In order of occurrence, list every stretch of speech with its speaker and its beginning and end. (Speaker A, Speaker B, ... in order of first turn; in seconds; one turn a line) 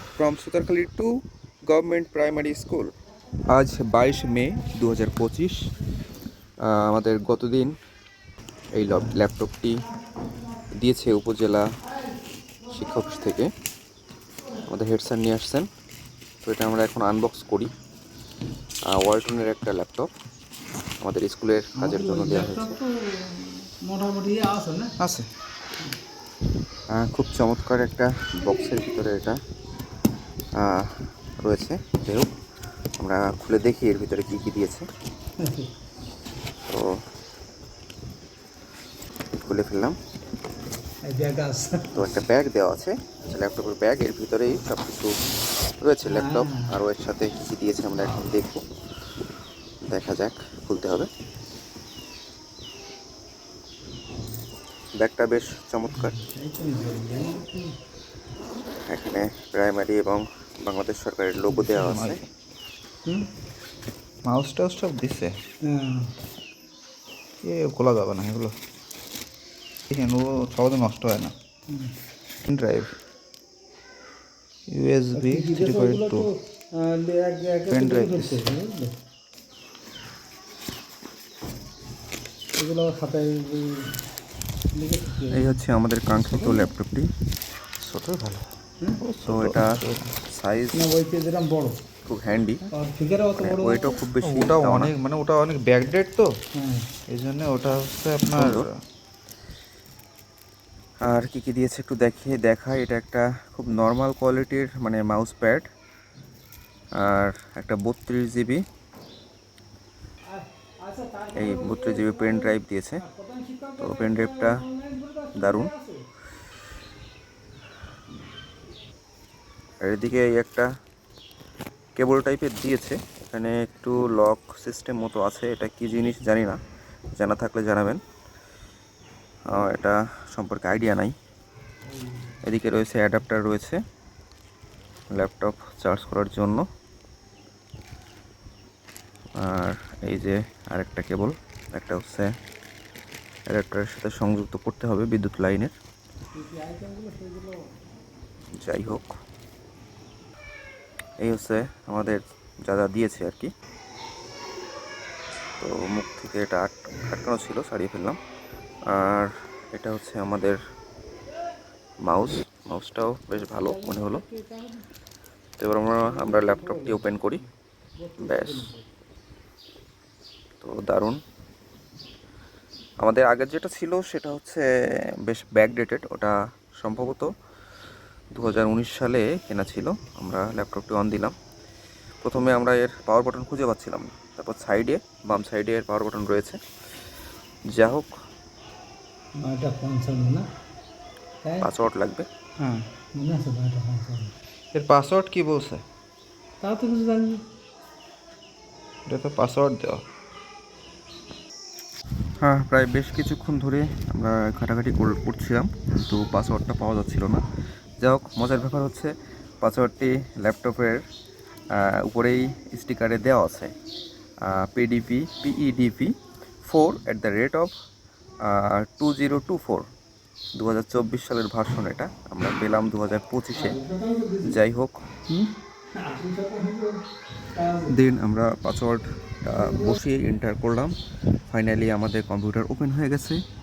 Speaker A: 0.2-1.1
Speaker A: 1.7-2.9
Speaker A: 3.5-5.7
Speaker A: 6.7-7.7
Speaker A: 8.8-9.8
Speaker A: 10.8-11.7
Speaker A: 12.7-13.5
Speaker A: 14.7-15.7
Speaker A: 16.4-17.7
Speaker A: 18.9-20.1
Speaker A: 21.0-22.8
Speaker B: 21.8-24.9
Speaker C: 25.0-25.3
Speaker A: 26.9-29.4
Speaker A: 30.6-32.3
Speaker A: 33.0-34.9
Speaker B: 35.4-35.7
Speaker A: 39.4-40.0
Speaker B: 41.0-42.2
Speaker A: 42.0-45.2
Speaker A: 45.8-48.6
Speaker B: 46.0-46.8
Speaker A: 49.8-51.1
Speaker A: 55.0-56.1
Speaker B: 55.9-57.8
Speaker A: 58.9-62.2
Speaker B: 61.5-62.0
Speaker C: 61.8-62.3
Speaker C: 64.3-65.3
Speaker B: 65.7-66.1
Speaker C: 67.4-68.5
Speaker C: 69.9-71.3
Speaker C: 72.5-72.9
Speaker C: 74.7-76.3
Speaker B: 75.2-79.0
Speaker C: 77.7-78.5
Speaker B: 82.6-83.9
Speaker B: 84.8-85.6
Speaker A: 85.3-87.1
Speaker C: 87.8-90.2
Speaker A: 89.2-90.8
Speaker B: 90.8-91.8
Speaker A: 92.0-92.7
Speaker B: 92.7-94.0
Speaker A: 93.4-94.9
Speaker C: 94.2-96.3
Speaker B: 96.6-96.9
Speaker C: 97.1-98.8
Speaker A: 98.3-98.7
Speaker A: 101.0-105.7
Speaker A: 107.0-108.6
Speaker B: 110.3-116.0
Speaker A: 111.3-113.0
Speaker A: 113.8-114.6
Speaker A: 115.3-115.7
Speaker A: 119.8-120.7
Speaker A: 122.0-126.6
Speaker A: 127.2-128.0
Speaker A: 129.5-131.1
Speaker B: 131.9-132.3
Speaker A: 132.4-133.8
Speaker A: 135.1-136.7
Speaker A: 139.4-142.3
Speaker A: 143.5-145.7
Speaker B: 146.4-147.6
Speaker A: 148.6-149.1
Speaker A: 151.2-153.5
Speaker A: 155.6-158.2
Speaker A: 158.9-160.6
Speaker A: 162.1-164.2
Speaker B: 163.3-164.9
Speaker A: 165.6-167.4
Speaker B: 166.0-168.9
Speaker A: 168.2-168.7
Speaker A: 170.6-171.2
Speaker A: 173.0-174.7
Speaker A: 175.2-177.3
Speaker A: 178.3-181.3
Speaker A: 182.2-186.6
Speaker A: 187.7-188.1
Speaker B: 189.4-190.5
Speaker B: 191.4-191.7
Speaker A: 191.6-192.3
Speaker B: 192.7-194.3
Speaker C: 194.7-195.8
Speaker B: 196.6-197.4
Speaker C: 199.1-200.0
Speaker A: 202.4-207.4
Speaker A: 208.0-211.0
Speaker A: 211.7-213.7
Speaker A: 214.4-217.7
Speaker A: 218.4-219.9
Speaker A: 220.6-223.8
Speaker B: 223.5-224.6
Speaker A: 224.4-225.0
Speaker B: 225.3-227.0
Speaker B: 227.6-227.9
Speaker A: 227.9-230.9
Speaker B: 229.5-230.0
Speaker A: 231.5-233.4